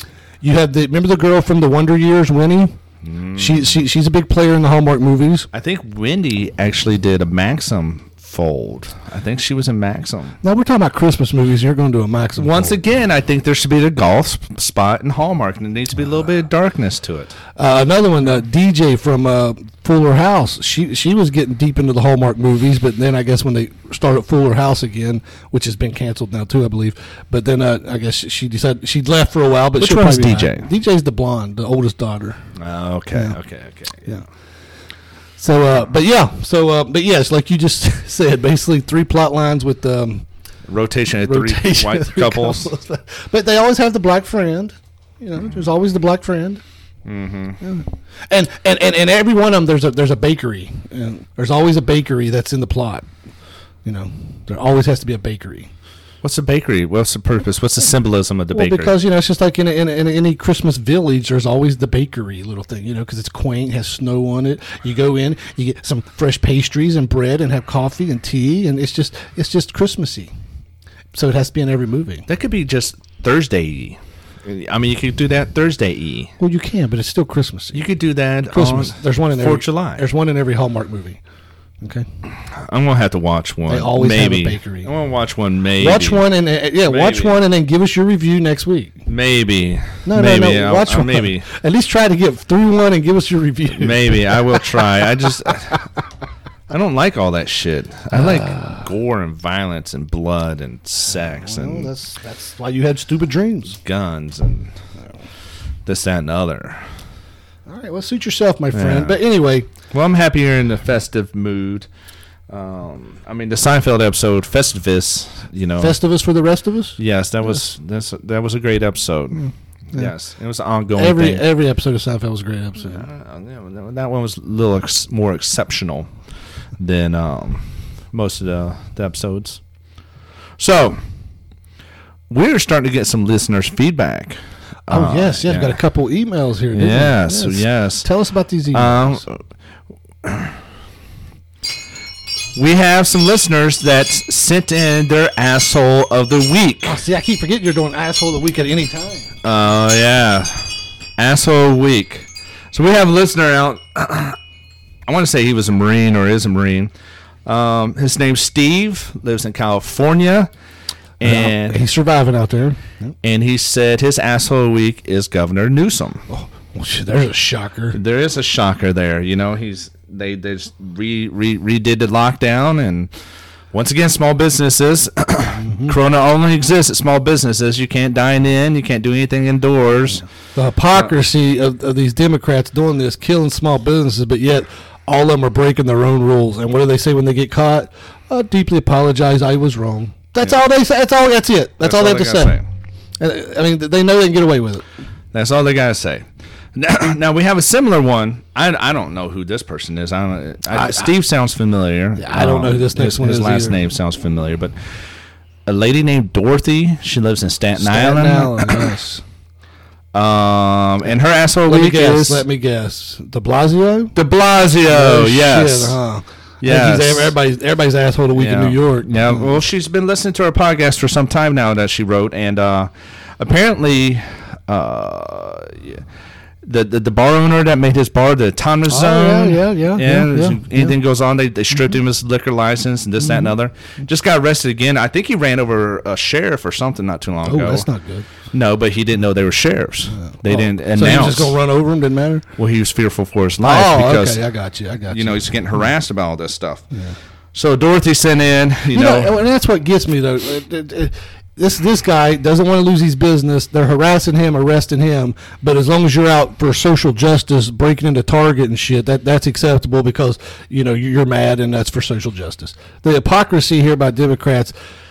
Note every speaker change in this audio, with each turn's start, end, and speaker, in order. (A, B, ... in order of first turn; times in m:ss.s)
0:00.4-0:02.8 A
0:03.0-0:03.7 B
0:03.4-0:05.5 A
0:05.5-0:10.4 B
0:10.4-0:12.8 A
0:12.4-0:17.4 B
0:17.6-0:32.4 A
0:29.8-0:30.7 B
0:32.6-0:34.1 B
0:35.4-0:40.3 A
0:40.7-0:42.7 B
0:41.2-0:46.6 A
0:47.0-0:47.6 B
0:47.6-0:53.1 A
0:53.8-0:55.7 A
0:56.2-0:58.9 B
0:58.5-1:10.3 A
1:11.1-1:12.3 A
1:12.3-1:16.3 B
1:16.4-1:17.8 A
1:17.7-1:20.0 B
1:18.5-1:21.2 A
1:21.8-1:22.1 A
1:22.5-1:26.2 B
1:23.7-1:24.9 A
1:25.8-1:29.0 A
1:26.9-1:27.4 B
1:29.1-1:31.4 B
1:30.0-1:34.7 A
1:33.7-1:35.8 B
1:36.7-1:41.9 B
1:38.1-1:38.8 A
1:41.4-1:43.8 A
1:43.8-1:44.7 B
1:45.9-1:46.8 B
1:47.7-1:49.7 A
1:48.7-1:49.2 B
1:49.9-1:51.9 B
1:52.5-1:56.0 B
1:55.8-1:57.0 A
1:57.0-2:01.5 B
1:59.4-2:00.1 A
2:00.9-2:03.1 A
2:02.8-2:06.1 B
2:06.8-2:09.6 B
2:10.6-2:11.0 B
2:12.3-2:15.8 B
2:14.9-2:19.2 A
2:16.7-2:18.1 B
2:18.7-2:19.4 B
2:20.2-2:20.6 B
2:22.6-2:27.0 B
2:26.9-2:29.3 A
2:29.4-2:34.4 B
2:35.1-2:36.9 B
2:37.4-2:40.5 B
2:41.2-2:41.8 B
2:41.2-2:43.1 A
2:43.2-2:46.2 B
2:46.3-2:48.0 A
2:47.9-2:53.1 B
2:53.7-3:00.2 B
2:55.5-2:56.0 A
3:00.6-3:12.6 A
3:11.8-3:12.6 B
3:13.2-3:14.8 A
3:15.3-3:24.7 B
3:20.7-3:21.1 A
3:22.2-3:23.8 A
3:25.6-3:28.9 B
3:27.8-3:29.2 A
3:30.1-3:32.4 B
3:31.7-3:34.2 A
3:34.1-3:36.0 B
3:34.9-3:39.5 A
3:36.6-3:37.4 B
3:38.4-3:46.0 B
3:46.6-3:57.9 B
3:48.9-3:51.0 A
3:53.2-3:53.5 A
3:57.4-3:58.3 A
3:58.5-4:01.6 B
4:00.2-4:02.4 A
4:02.6-4:04.4 B
4:03.6-4:05.5 A
4:05.1-4:06.9 B
4:07.5-4:09.3 B
4:08.9-4:24.7 A